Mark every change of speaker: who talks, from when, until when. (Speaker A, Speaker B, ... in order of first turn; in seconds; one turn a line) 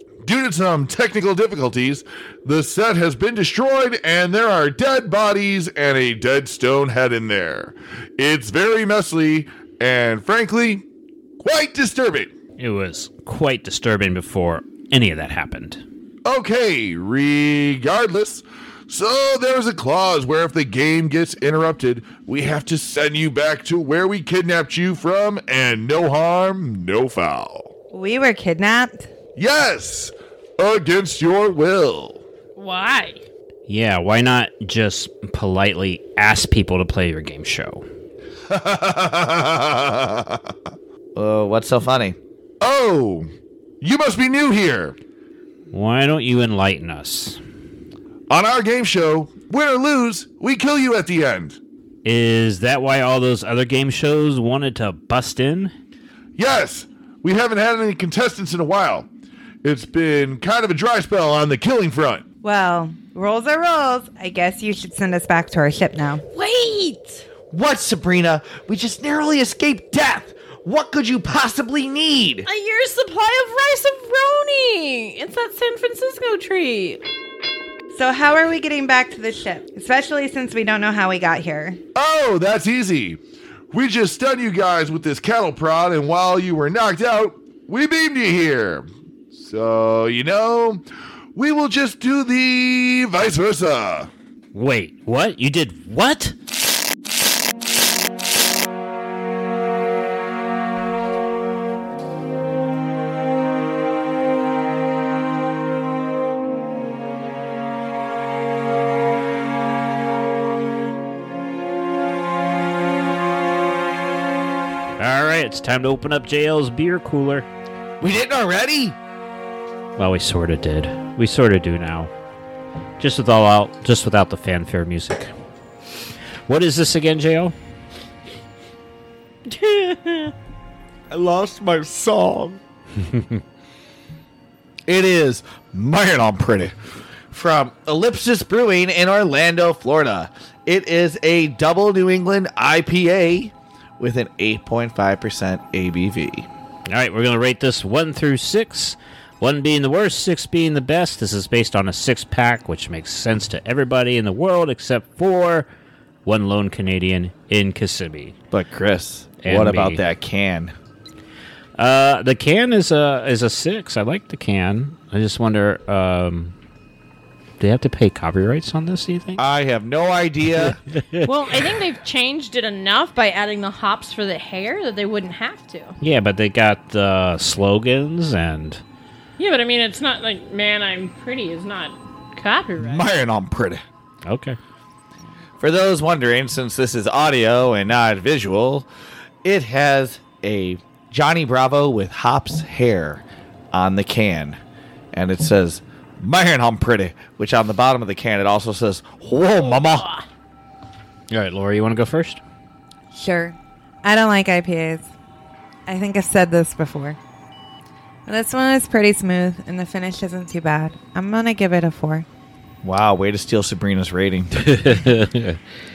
Speaker A: 0.2-10.8
Speaker A: 11.4-12.3
Speaker B: 12.6-15.8
Speaker A: 16.2-27.7
Speaker C: 27.9-29.1
Speaker A: 29.4-32.2
Speaker D: 32.5-33.2
Speaker B: 33.7-37.8
Speaker A: 38.5-40.5
Speaker E: 41.1-42.1
Speaker A: 42.6-43.3
Speaker A: 43.8-45.0
Speaker B: 45.7-47.4
Speaker A: 48.3-51.6
Speaker B: 52.0-55.7
Speaker A: 56.4-59.1
Speaker A: 59.6-62.2
Speaker C: 62.4-66.2
Speaker D: 66.3-67.2
Speaker E: 67.5-72.5
Speaker D: 72.5-77.0
Speaker C: 77.9-81.8
Speaker A: 81.9-83.2
Speaker A: 83.7-90.8
Speaker A: 91.3-94.1
Speaker B: 94.5-96.3
Speaker B: 115.0-117.5
Speaker E: 118.0-119.0
Speaker B: 120.0-122.1
Speaker B: 123.0-125.3
Speaker B: 126.5-127.5
Speaker D: 129.5-130.3
Speaker E: 131.1-132.6
Speaker E: 134.9-136.7
Speaker E: 137.3-146.5
Speaker B: 146.9-155.7
Speaker B: 156.2-158.3
Speaker E: 158.5-160.7
Speaker B: 159.4-160.0
Speaker B: 161.8-166.5
Speaker B: 167.6-169.4
Speaker E: 169.4-170.8
Speaker D: 171.2-175.9
Speaker B: 176.0-178.8
Speaker D: 179.4-183.1
Speaker E: 182.8-183.8
Speaker B: 184.2-184.6
Speaker E: 185.6-188.9
Speaker E: 189.4-194.6
Speaker E: 195.1-200.1
Speaker D: 199.6-200.2
Speaker B: 201.3-202.4
Speaker C: 203.1-205.1
Speaker C: 205.9-207.2
Speaker C: 208.3-212.2
Speaker E: 212.8-215.0
Speaker B: 215.2-215.6